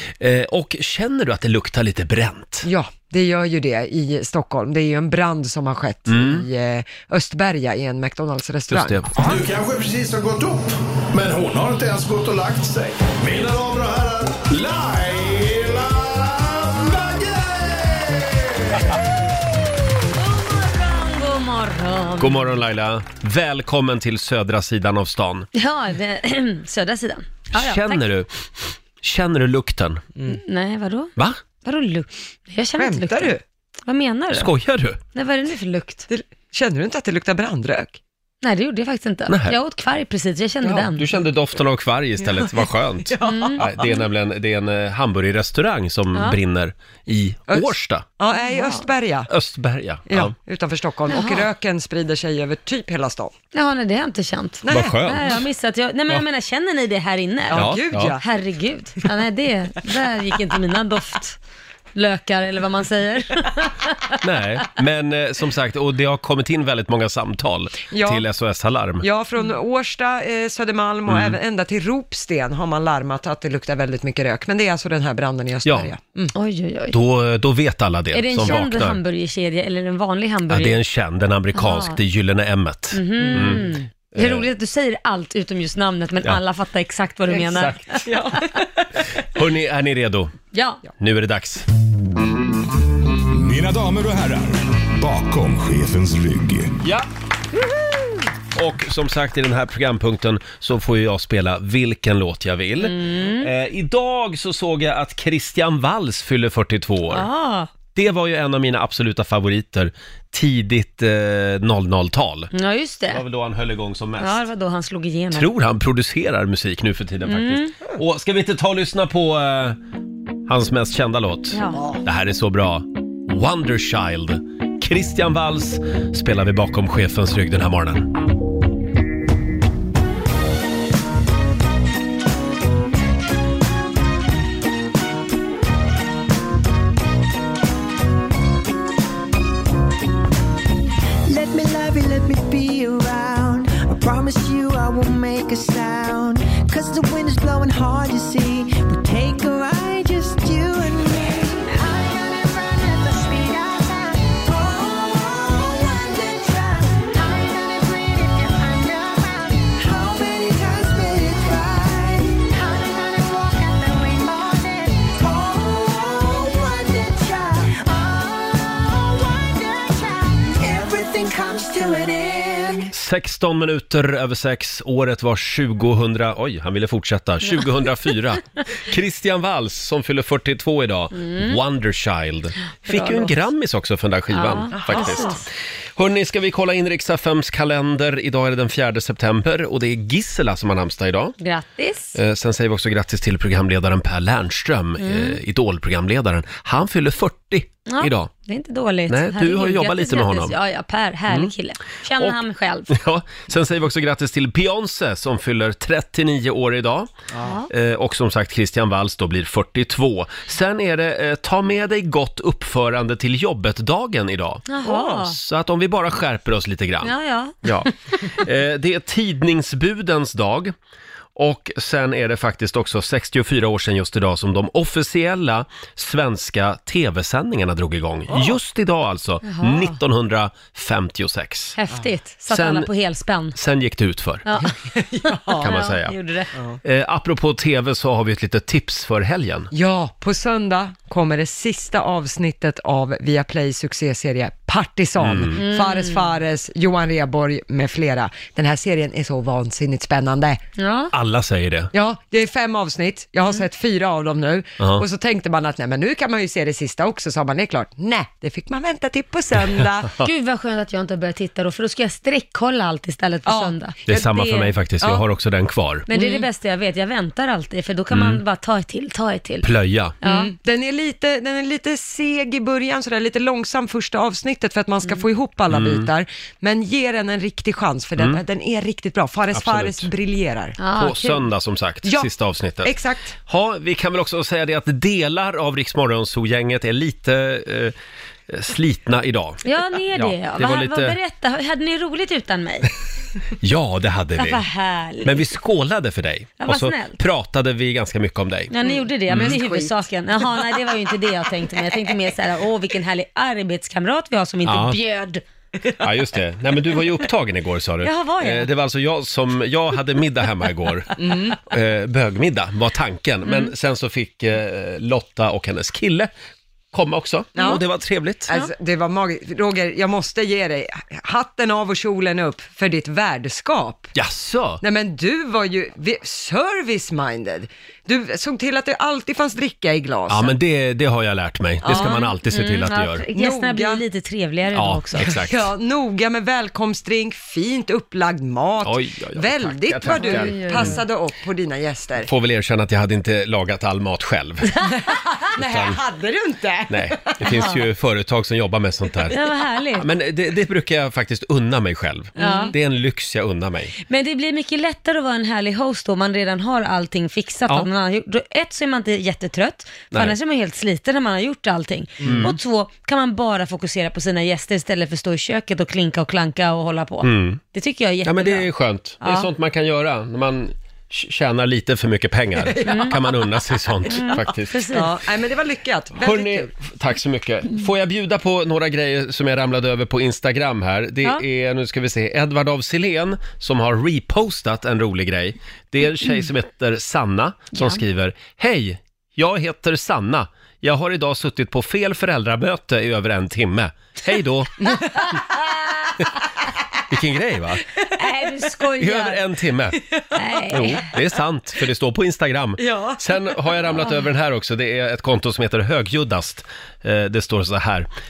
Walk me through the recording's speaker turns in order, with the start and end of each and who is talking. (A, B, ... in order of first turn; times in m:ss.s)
0:00.2-0:02.7 A
0:02.6-0:09.2 B
0:06.1-0:06.4 A
0:08.7-0:09.2 A
0:09.2-0:10.6 C
0:11.1-0:17.3 C
0:20.1-0:22.5 D
0:22.2-0:25.5 A
0:25.5-0:28.0 D
0:27.5-0:28.3 A
0:29.0-0:30.0 A
0:30.3-0:31.1 D
0:31.6-0:33.3 D
0:32.8-0:33.4 B
0:33.8-0:34.5 D
0:34.3-0:35.0 A
0:35.1-0:36.0 D
0:36.1-0:38.0 B
0:38.4-0:41.0 D
0:39.3-0:39.6 A
0:40.6-0:48.0 A
0:42.3-0:42.5 B
0:43.0-0:43.7 B
0:43.2-0:43.6 D
0:47.5-0:49.3 B
0:48.4-0:48.8 D
0:49.3-0:50.3 A
0:50.1-0:53.3 B
0:51.1-0:51.5 D
0:53.5-1:01.4 D
0:54.6-0:55.4 B
0:54.7-0:55.4 A
0:57.5-0:58.2 B
0:57.5-0:58.2 A
1:02.0-1:04.1 D
1:04.2-1:09.0 A
1:07.9-1:08.2 B
1:09.0-1:16.3 B
1:11.1-1:11.4 A
1:15.6-1:15.9 A
1:16.3-1:17.0 D
1:16.9-1:19.0 A
1:18.1-1:20.8 D
1:20.5-1:24.5 A
1:21.5-1:22.0 D
1:22.9-1:28.1 D
1:23.2-1:23.6 B
1:27.4-1:28.0 A
1:28.0-1:28.8 B
1:29.3-1:30.3 A
1:30.5-1:30.8 D
1:31.0-1:31.7 A
1:33.3-1:36.8 C
1:36.8-1:37.1 A
1:38.6-1:47.3 A
1:42.8-1:43.5 D
1:47.1-1:47.7 D
1:47.9-1:52.5 A
1:52.5-1:53.2 D
1:53.1-1:54.4 A
1:54.2-1:55.5 D
1:55.3-1:59.8 A
1:57.2-1:57.7 D
2:00.5-2:08.1 A
2:01.5-2:01.8 D
2:21.2-2:52.9 E
2:52.9-3:05.4 A
3:01.2-3:01.6 D
3:02.8-3:03.4 D
3:04.3-3:05.4 D
3:04.7-3:05.3 B
3:06.0-3:11.3 A
3:11.4-3:12.2 D
3:12.2-3:18.3 A
3:15.0-3:15.4 D
3:17.9-3:22.9 D
3:19.1-3:20.5 A
3:22.9-3:27.1 A
3:27.4-3:27.7 D
3:27.7-3:37.1 A
3:34.7-3:35.4 D
3:37.0-3:37.9 D
3:37.6-3:40.7 A
3:41.4-3:51.8 A
3:49.4-3:50.0 D
3:51.8-3:53.6 D
3:52.5-3:52.9 A
3:53.5-3:54.5 A
3:54.5-3:54.7 D
3:54.6-3:55.6 B
3:55.2-3:56.5 D
3:55.6-3:56.2 A
3:56.8-3:59.7 A
3:59.7-4:10.6 B
4:05.2-4:05.6 A
4:05.6-4:06.3 D
4:10.8-4:11.1 D
4:11.1-4:11.9 A
4:11.9-4:20.1 B
4:14.8-4:15.0 A
4:20.2-4:24.7 D
4:23.4-4:23.7 B
4:24.1-4:26.1 A
4:26.1-4:29.7 D
4:26.1-4:26.4 B
4:28.1-4:28.4 A
4:29.6-4:30.2 A
4:30.2-4:30.5 D
4:30.2-4:40.8 B
4:35.7-4:36.1 A
4:39.5-4:40.1 A
4:40.8-4:41.5 D
4:40.9-4:42.9 A
4:42.8-4:43.4 B
4:43.4-4:47.9 A
4:48.5-4:51.2 A
4:49.6-4:52.9 D
4:53.6-4:54.6 A
4:54.4-4:55.4 D
4:55.2-4:58.7 A
4:56.6-4:57.2 D
4:58.7-5:05.4 D
4:58.8-4:59.9 B
4:59.3-4:59.6 A
5:04.6-5:05.0 A
5:06.0-5:16.3 A
5:08.0-5:08.7 D
5:11.2-5:11.6 B
5:13.4-5:13.7 D
5:16.9-5:18.5 A
5:17.6-5:17.8 B
5:18.5-5:24.1 B
5:24.1-5:24.8 A
5:24.8-5:30.5 B
5:30.3-5:33.2 A
5:31.8-5:32.2 B
5:31.9-5:35.3 D
5:33.3-5:34.0 B
5:34.7-5:35.6 A
5:35.2-5:42.3 B
5:38.8-5:41.0 A
5:40.1-5:41.0 D
5:42.2-5:44.8 A
5:44.8-5:47.7 B
5:45.6-5:46.0 A
5:46.9-5:49.4 A
5:47.5-5:47.8 D
5:49.3-5:50.1 D
5:50.0-5:53.9 A
5:52.4-5:52.7 B
5:52.4-5:52.7 D
5:54.1-6:08.7 D
6:02.2-6:02.6 A
6:07.2-6:07.6 A
6:08.2-6:14.8 A
6:09.2-6:09.5 D
6:12.6-6:13.3 B
6:12.8-6:13.1 D
6:14.1-6:15.1 D
6:14.9-6:16.7 B
6:16.2-6:34.8 A
6:27.8-6:28.0 D
6:34.8-6:35.6 B
6:37.1-6:37.8 A
6:38.1-6:39.4 D
6:39.0-6:40.0 A
6:40.2-6:40.7 B
6:40.4-6:41.0 D
6:40.7-6:48.1 A
6:42.8-6:43.2 B